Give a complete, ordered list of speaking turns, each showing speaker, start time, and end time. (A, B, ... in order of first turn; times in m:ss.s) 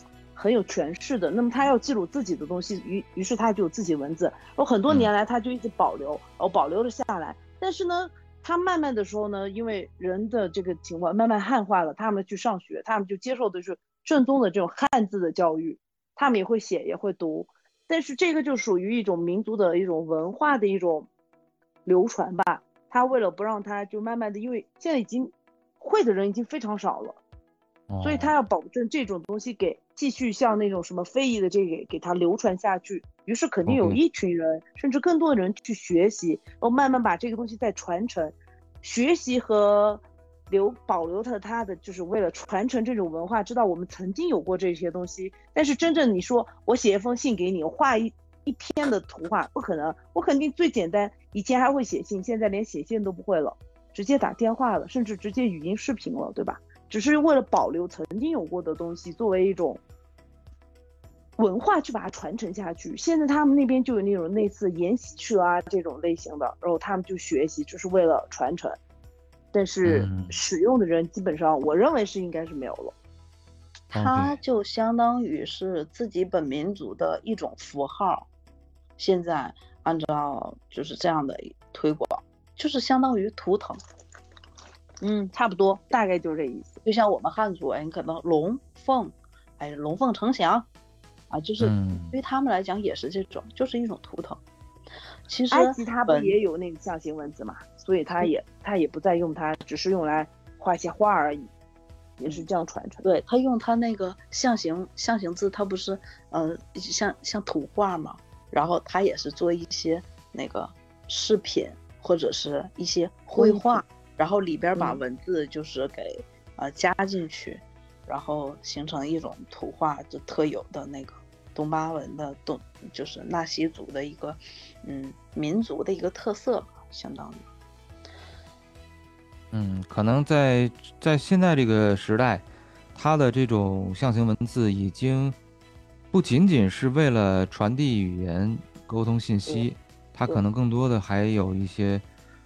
0:00.3-0:21.1 A
0:21.8-0:27.2 A
0:27.9-0:28.3 B
0:28.0-0:59.8 A
0:33.7-0:34.0 B
1:01.4-1:08.8 A
1:09.5-1:12.9 A
1:09.8-1:10.4 B
1:13.9-1:18.3 C
1:13.9-1:14.4 B
1:19.0-1:23.8 C
1:25.0-1:25.3 C
1:25.3-1:26.8 A
1:26.8-1:30.7 C
1:31.3-1:34.4 C
1:31.6-1:32.2 B
1:35.3-1:36.4 C
1:35.5-1:41.5 A
1:42.2-1:43.0 A
1:43.0-2:07.4 C
1:53.3-1:53.8 A
1:54.8-1:55.0 A
2:09.5-2:15.4 B
2:16.1-2:22.0 B